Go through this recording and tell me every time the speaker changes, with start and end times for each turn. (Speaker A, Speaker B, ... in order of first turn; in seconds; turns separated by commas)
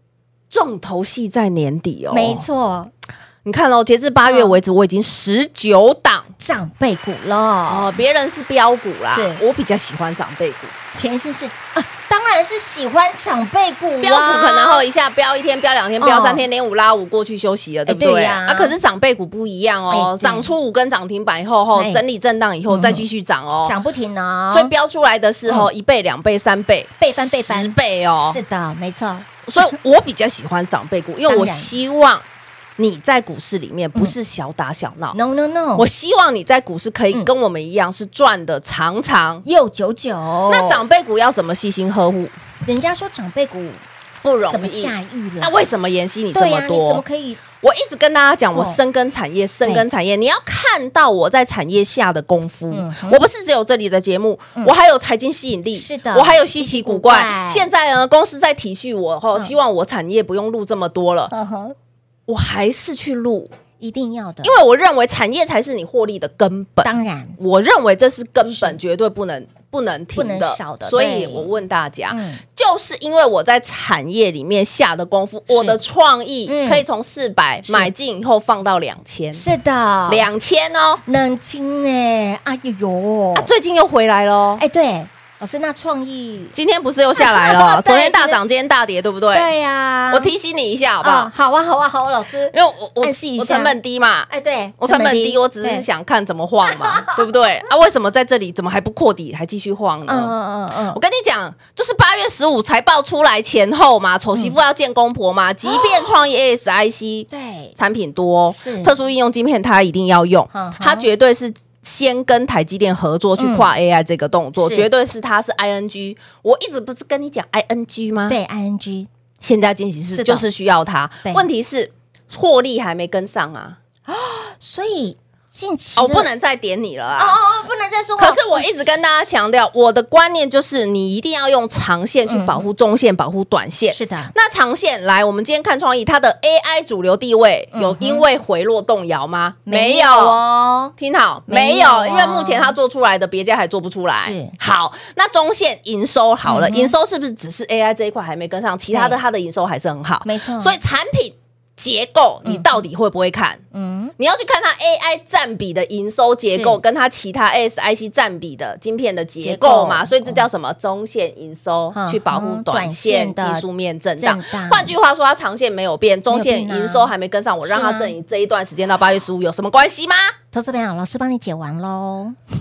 Speaker A: 0.5-2.4, Speaker B: 2.1-2.9, Speaker A: 3.4-6.3, Speaker B: 4.2-4.6, Speaker B: 6.4-8.0, Speaker A: 7.7-10.7, Speaker B: 9.1-9.4, Speaker B: 10.9-14.8, Speaker A: 14.0-23.8, Speaker B: 16.0-16.4, Speaker B: 17.9-18.7, Speaker B: 19.9-20.5, Speaker B: 21.7-22.0, Speaker B: 22.7-23.0, Speaker B: 23.6-24.7, Speaker A: 24.5-28.4, Speaker B: 27.0-29.3, Speaker A: 29.4-32.2, Speaker B: 31.3-31.7, Speaker A: 32.8-35.1, Speaker B: 35.1-35.9, Speaker A: 35.8-39.4, Speaker B: 39.4-40.8, Speaker A: 40.5-42.3, Speaker B: 42.6-43.8, Speaker A: 44.2-47.0, Speaker B: 44.5-45.5, Speaker B: 46.3-47.4, Speaker A: 47.6-61.3, Speaker B: 52.7-53.2, Speaker B: 55.8-57.6, Speaker B: 61.3-61.7, Speaker A: 62.3-63.5, Speaker B: 63.8-64.5, Speaker A: 64.4-79.4, Speaker B: 66.8-67.4, Speaker B: 68.5-68.8, Speaker B: 70.2-71.5, Speaker B: 72.1-72.4, Speaker B: 75.5-75.8, Speaker B: 76.5-76.8, Speaker B: 79.3-80.2, Speaker A: 80.1-81.0, Speaker B: 81.0-83.5, Speaker A: 83.3-84.6, Speaker B: 84.6-86.5, Speaker A: 86.5-89.5, Speaker B: 87.2-88.4, Speaker B: 89.3-90.3, Speaker A: 90.1-91.3, Speaker B: 91.0-93.7, Speaker A: 92.5-94.3, Speaker B: 94.3-95.8, Speaker A: 94.8-100.3, Speaker B: 96.7-97.2, Speaker B: 100.1-101.0, Speaker A: 100.9-118.4, Speaker B: 107.3-107.8, Speaker B: 108.5-108.9, Speaker B: 110.5-111.1, Speaker B: 113.4-113.7, Speaker B: 114.6-114.9, Speaker B: 118.3-119.1, Speaker A: 119.4-123.8, Speaker B: 120.1-120.4, Speaker B: 124.1-126.3, Speaker A: 126.0-127.4, Speaker B: 127.2-129.0, Speaker A: 128.2-140.4, Speaker B: 132.3-132.6, Speaker B: 133.9-134.3, Speaker B: 137.7-138.2, Speaker B: 139.7-140.9, Speaker A: 141.0-153.6, Speaker B: 141.5-142.7, Speaker B: 144.1-144.5, Speaker B: 146.5-146.9, Speaker B: 148.9-149.2, Speaker B: 150.2-150.7, Speaker B: 152.4-152.7, Speaker B: 153.7-154.1, Speaker A: 154.2-170.3, Speaker B: 156.5-156.8, Speaker B: 159.4-160.4, Speaker B: 161.9-163.6, Speaker B: 164.2-164.9, Speaker B: 166.3-167.1, Speaker B: 167.7-168.1, Speaker B: 170.5-172.4